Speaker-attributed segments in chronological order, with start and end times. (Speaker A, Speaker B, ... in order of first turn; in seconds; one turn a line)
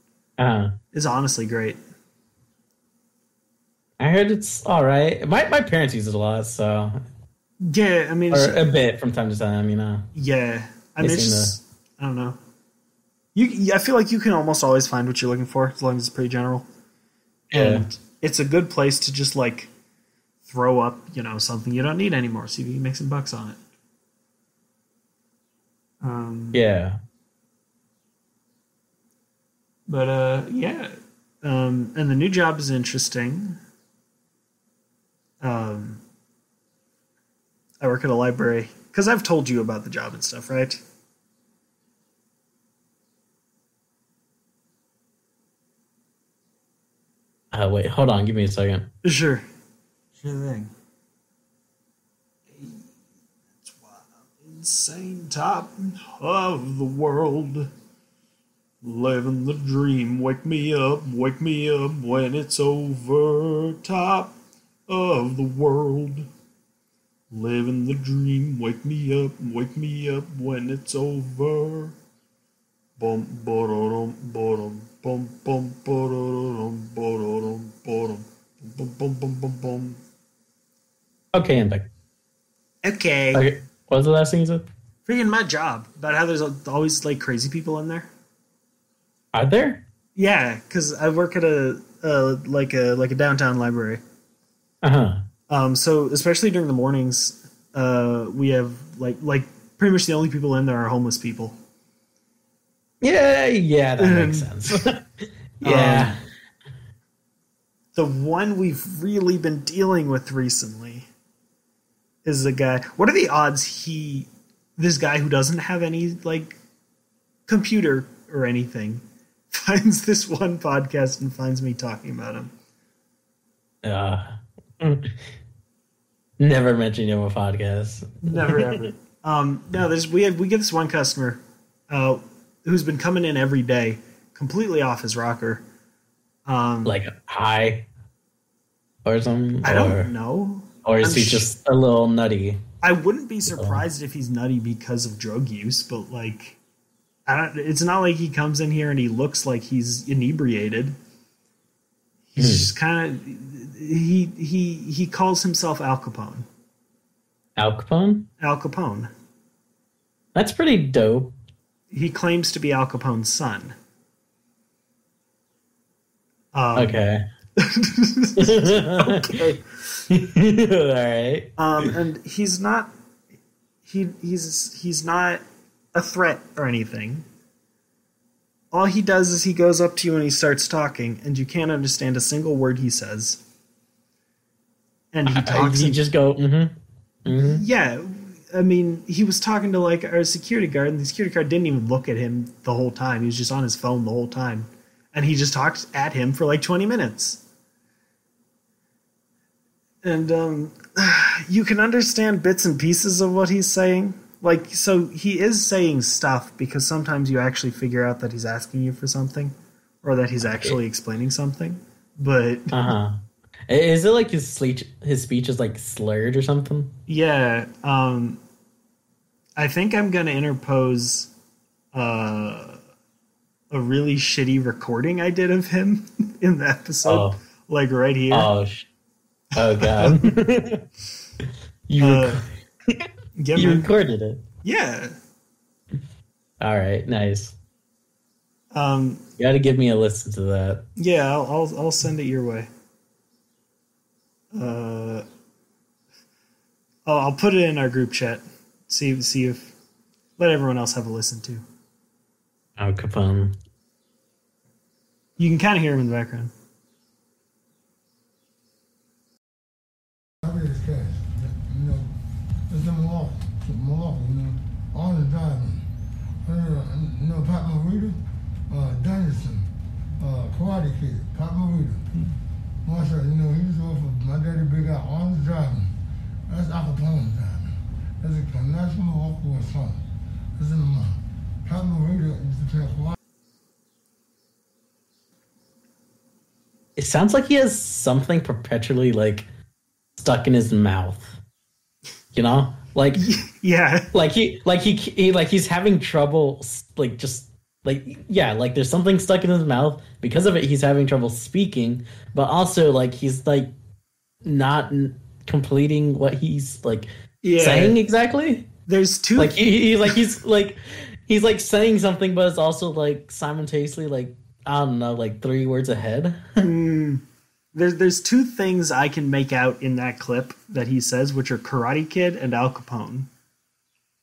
Speaker A: 0.4-0.7
Speaker B: 0.9-1.8
Speaker A: 4.0-7.0
Speaker B: 7.6-8.6
Speaker A: 8.3-10.1
Speaker B: 10.1-12.4
Speaker A: 11.0-11.6
Speaker B: 13.3-16.7
Speaker A: 17.5-17.9
Speaker B: 17.5-19.7
Speaker B: 20.4-23.6
Speaker B: 26.0-26.6
Speaker A: 26.5-27.0
Speaker B: 29.9-33.6
Speaker B: 35.4-36.0
Speaker B: 37.8-40.8
Speaker A: 47.5-48.9
Speaker B: 49.0-49.5
Speaker B: 50.2-50.7
Speaker B: 52.5-52.9
Speaker B: 53.6-57.7
Speaker B: 58.8-64.3
Speaker B: 64.9-66.3
Speaker B: 67.3-72.0
Speaker B: 73.0-80.0
Speaker A: 81.3-81.9
Speaker B: 82.8-83.4
Speaker A: 83.3-84.7
Speaker B: 85.1-88.1
Speaker A: 89.3-89.8
Speaker B: 90.2-94.0
Speaker A: 94.8-95.2
Speaker B: 95.5-101.6
Speaker A: 103.0-105.0
Speaker B: 104.0-104.9
Speaker A: 105.6-106.2
Speaker B: 105.6-106.2
Speaker B: 108.0-111.1
Speaker B: 112.2-116.6
Speaker B: 117.5-122.5
Speaker A: 123.8-125.2
Speaker A: 126.4-128.8
Speaker B: 128.2-135.6
Speaker B: 136.5-137.0
Speaker A: 136.8-137.9
Speaker A: 139.1-140.1
Speaker B: 139.6-141.5
Speaker A: 140.8-142.6
Speaker B: 142.8-146.6
Speaker A: 143.5-143.8
Speaker B: 147.3-150.9
Speaker B: 152.3-156.5
Speaker A: 152.4-152.7
Speaker A: 157.6-158.3
Speaker B: 158.4-159.1
Speaker A: 160.3-161.3
Speaker B: 161.9-163.7
Speaker B: 166.5-167.0
Speaker A: 166.8-167.2
Speaker B: 167.6-170.0
Speaker A: 168.4-169.4
Speaker A: 170.1-171.5
Speaker B: 171.6-172.9
Speaker B: 173.8-175.4
Speaker B: 175.9-177.2
Speaker B: 178.7-183.4
Speaker B: 185.1-186.1
Speaker A: 185.3-186.7
Speaker A: 187.3-187.6
Speaker B: 187.3-197.4
Speaker B: 200.0-212.7
Speaker A: 210.4-210.8
Speaker A: 212.7-216.9
Speaker B: 217.1-218.4
Speaker B: 219.6-221.3
Speaker B: 221.9-222.8
Speaker B: 223.7-228.5
Speaker A: 227.1-227.4
Speaker A: 228.3-228.9
Speaker A: 229.6-230.8
Speaker B: 229.6-230.3
Speaker A: 231.9-234.4
Speaker B: 232.0-232.4
Speaker B: 233.4-233.9
Speaker B: 234.6-235.2
Speaker A: 236.6-237.6
Speaker B: 238.7-239.2
Speaker A: 239.4-240.8
Speaker B: 241.0-242.7
Speaker B: 244.5-245.2
Speaker B: 247.1-249.7
Speaker B: 250.4-251.6
Speaker A: 252.8-253.6
Speaker B: 255.4-256.5
Speaker C: 260.4-262.1
Speaker C: 262.7-265.9
Speaker C: 266.4-272.1
Speaker C: 272.8-275.9
Speaker C: 276.5-280.0
Speaker C: 280.6-283.1
Speaker A: 287.0-289.5
Speaker A: 290.2-291.4
Speaker A: 292.3-293.2
Speaker B: 293.1-294.1
Speaker A: 294.1-303.7
Speaker A: 304.4-308.7
Speaker B: 307.4-308.0
Speaker B: 308.9-310.2
Speaker A: 309.4-316.6
Speaker B: 316.6-317.2
Speaker B: 317.7-323.3